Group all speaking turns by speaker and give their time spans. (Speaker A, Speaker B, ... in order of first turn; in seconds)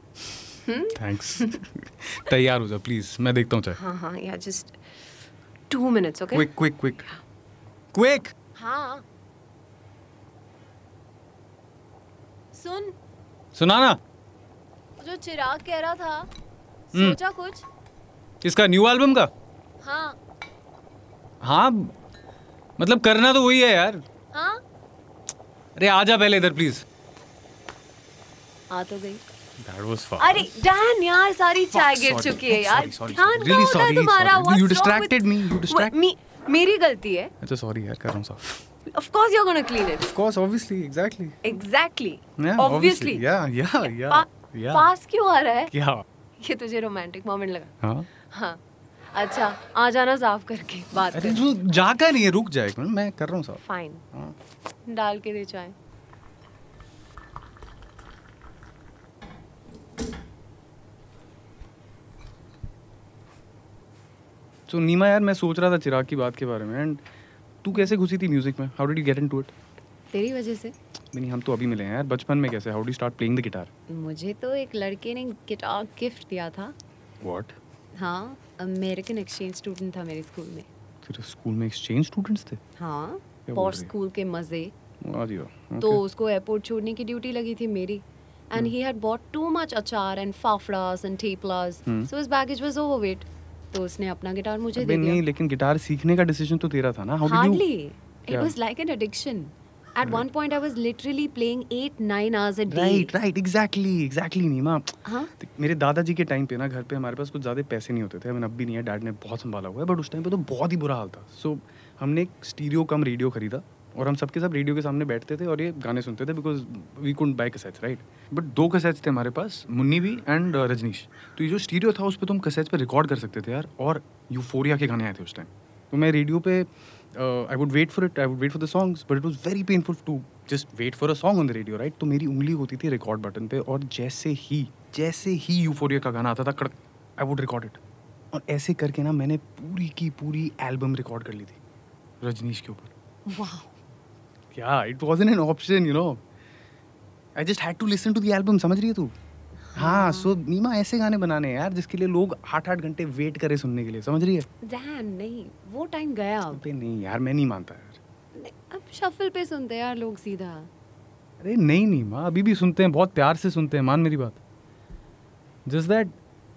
Speaker A: 0.7-1.6, 3.7-4.8, 5.7-6.6, 8.6-9.0, 12.5-12.9, 15.0-16.3, 16.9-17.6, 19.8-20.2, 24.3-24.6, 28.7-29.2, 30.2-37.3, 38.9-40.1, 41.4-45.7, 46.4-47.7, 48.2-48.6, 49.1-51.5, 53.6-54.0, 54.9-55.8, 70.1-70.7, 73.9-76.8, 78.0-80.7, 82.8-84.7, 85.8-95.2, 97.2-103.1, 105.1-105.3, 143.3-143.7, 149.7-150.4, 154.7-156.6, 158.4-160.7
Speaker B: 1.0-3.8, 6.3-7.0, 7.9-8.3, 13.6-14.0, 18.4-19.3, 21.4-21.9, 22.8-24.0, 25.8-26.8, 29.6-30.5, 31.7-36.0, 37.4-38.5, 40.1-41.4, 42.4-44.9, 45.7-46.0, 51.1-53.6, 64.7-67.0, 67.6-69.5, 71.1-73.7, 77.2-77.5, 81.0-82.6, 83.5-83.9, 85.0-86.0, 94.8-97.6, 98.3-98.5, 102.7-137.8, 138.3-141.6, 142.2-142.9, 144.5-146.2, 147.4-149.1, 149.8-154.5, 156.5-158.0, 161.4-164.4, 165.7-166.1